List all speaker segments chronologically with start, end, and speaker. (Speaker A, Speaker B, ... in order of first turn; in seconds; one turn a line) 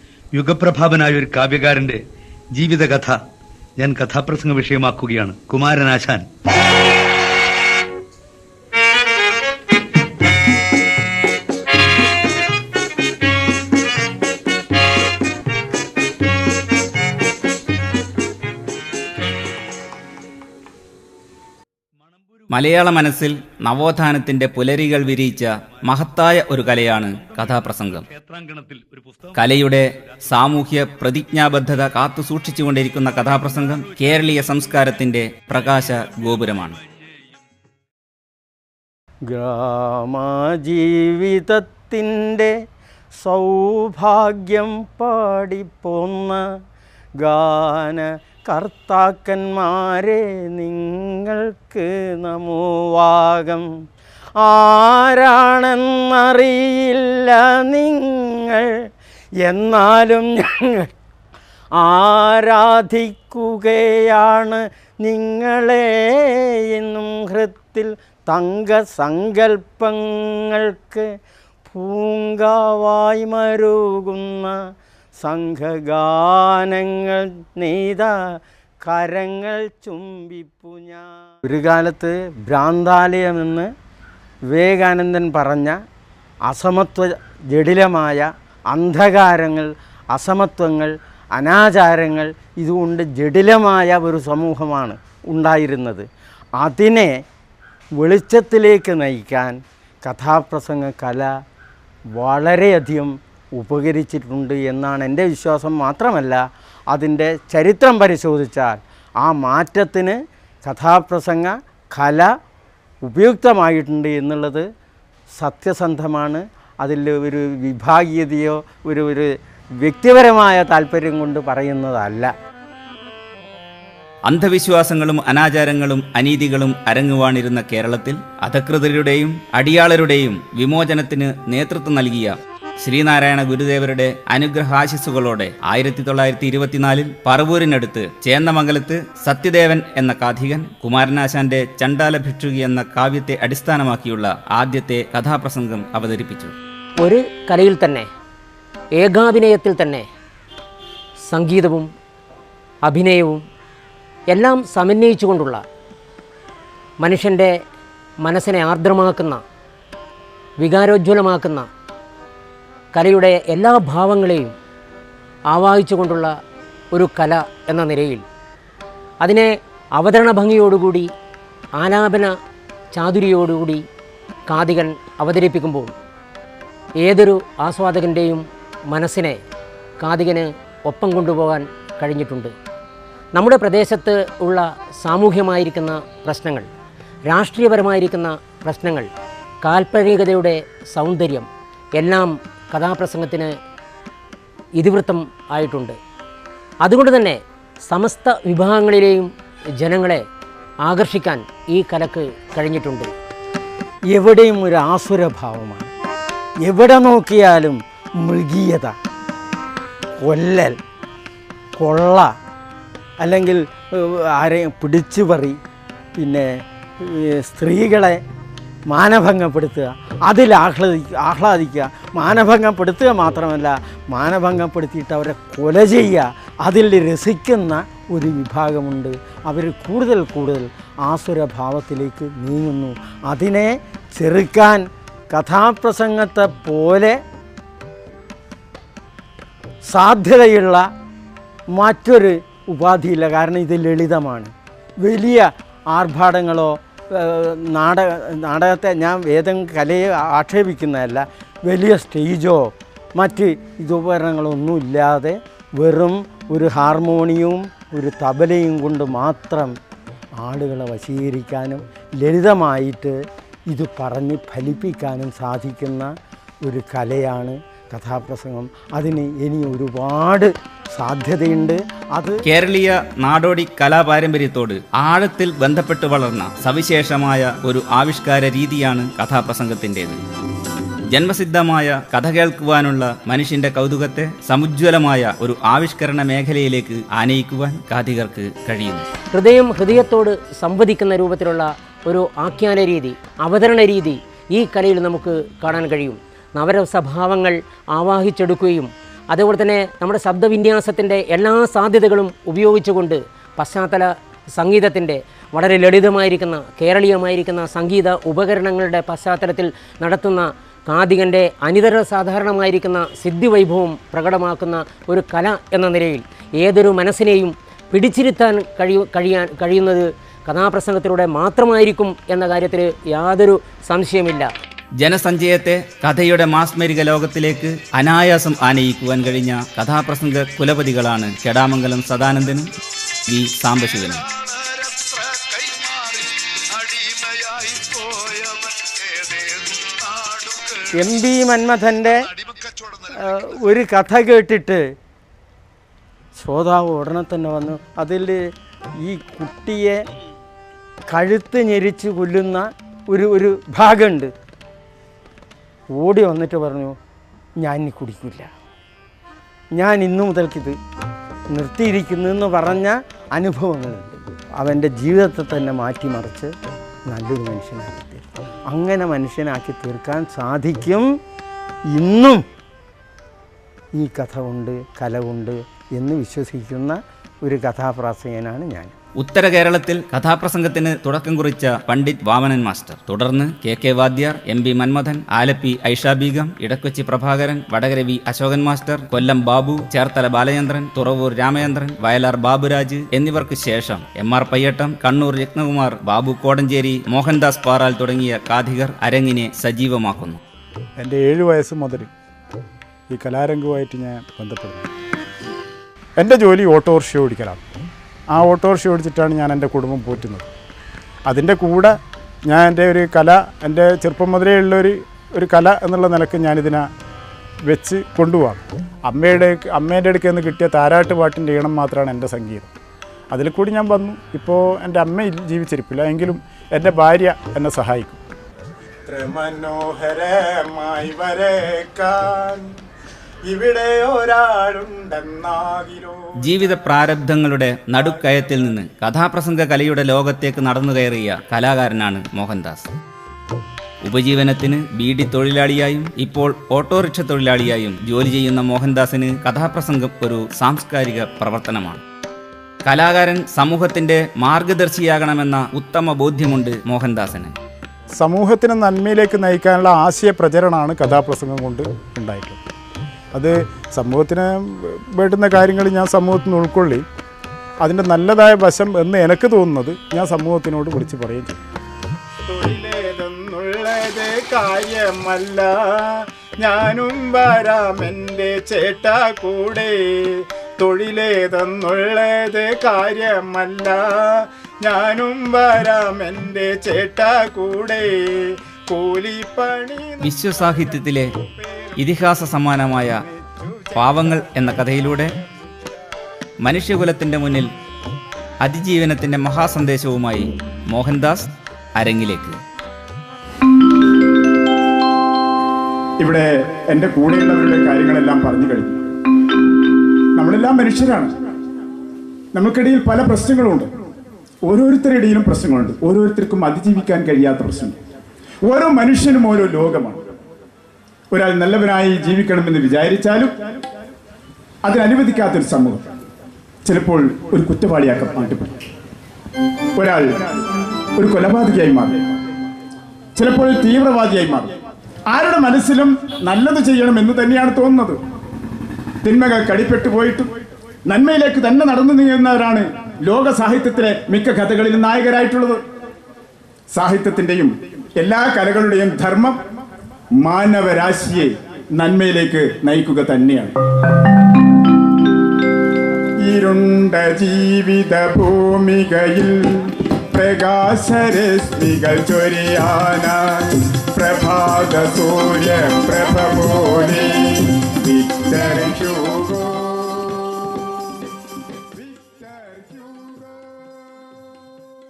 Speaker A: 0.3-2.0
Speaker A: 2.5-3.2
Speaker A: 3.8-6.3
Speaker B: 22.5-28.1
Speaker A: 28.1-29.3
Speaker B: 29.4-36.8
Speaker C: 39.3-42.5
Speaker C: 43.2-46.4
Speaker C: 47.2-53.7
Speaker C: 54.4-58.7
Speaker C: 59.4-60.9
Speaker C: 61.8-71.1
Speaker C: 71.7-74.6
Speaker C: 75.2-78.1
Speaker C: 78.8-83.7
Speaker C: 84.5-85.8
Speaker C: 86.5-96.1
Speaker C: 96.6-97.1
Speaker C: 98.0-101.3
Speaker C: 102.2-112.3
Speaker C: 113.0-114.7
Speaker C: 115.4-122.3
Speaker B: 124.3-146.5
Speaker D: 147.0-148.1
Speaker D: 148.9-150.1
Speaker D: 151.3-151.9
Speaker D: 152.8-153.4
Speaker D: 154.3-155.6
Speaker D: 157.0-157.6
Speaker D: 158.2-159.4
Speaker D: 160.6-161.7
Speaker D: 162.9-164.5
Speaker D: 165.5-166.3
Speaker D: 166.9-168.2
Speaker D: 169.2-171.1
Speaker D: 171.8-172.3
Speaker D: 172.9-173.8
Speaker D: 174.5-175.9
Speaker D: 177.0-179.4
Speaker D: 180.0-182.5
Speaker D: 183.3-186.7
Speaker D: 187.3-189.1
Speaker D: 189.6-193.6
Speaker D: 194.8-196.0
Speaker D: 196.8-200.2
Speaker D: 200.8-203.1
Speaker C: 204.1-205.9
Speaker C: 206.6-208.9
Speaker C: 210.2-210.8
Speaker C: 211.8-212.3
Speaker C: 213.2-215.6
Speaker C: 216.2-216.5
Speaker C: 217.0-218.2
Speaker C: 218.9-237.2
Speaker C: 239.9-240.9
Speaker C: 241.7-259.8
Speaker C: 260.4-263.1
Speaker C: 263.7-266.1
Speaker C: 266.6-272.4
Speaker B: 272.4-280.2
Speaker B: 281.1-289.1
Speaker D: 289.3-324.5
Speaker B: 325.0-332.7
Speaker B: 333.3-334.3
Speaker A: 334.4-340.9
Speaker C: 341.0-342.2
Speaker A: 342.4-343.1
Speaker C: 343.1-344.8
Speaker C: 346.4-348.4
Speaker C: 349.0-350.0
Speaker C: 351.1-354.3
Speaker C: 355.9-357.0
Speaker C: 357.6-358.5
Speaker C: 359.8-360.8
Speaker C: 361.5-366.5
Speaker C: 367.1-371.1
Speaker C: 371.9-372.4
Speaker C: 374.0-378.9
Speaker B: 379.2-400.4
Speaker E: 401.0-402.1
Speaker E: 403.1-404.9
Speaker E: 406.2-407.6
Speaker E: 408.3-410.5
Speaker E: 411.3-412.0
Speaker E: 412.5-416.9
Speaker E: 417.7-422.7
Speaker E: 423.3-428.2
Speaker E: 429.1-432.7
Speaker E: 433.5-436.8
Speaker B: 436.4-442.9
Speaker E: 438.0-438.3
Speaker B: 444.0-452.0
Speaker B: 452.9-457.6
Speaker E: 458.2-462.6
Speaker E: 463.3-467.1
Speaker E: 467.8-471.6
Speaker E: 472.5-492.5
Speaker B: 490.2-491.3
Speaker B: 492.0-493.2
Speaker E: 493.1-494.8
Speaker B: 493.9-495.3
Speaker B: 496.6-497.7
Speaker B: 498.6-502.6
Speaker E: 506.2-508.9
Speaker E: 510.4-511.3
Speaker E: 512.5-513.9
Speaker E: 514.6-518.0
Speaker E: 518.6-520.2
Speaker E: 521.3-523.5
Speaker E: 524.8-526.0
Speaker E: 526.9-528.8
Speaker E: 530.0-530.6
Speaker E: 531.2-532.2
Speaker E: 533.4-534.7
Speaker E: 535.3-538.2
Speaker E: 539.2-540.5
Speaker E: 541.1-545.8
Speaker E: 546.9-549.6
Speaker E: 550.4-553.7
Speaker E: 556.5-570.8
Speaker E: 571.9-573.8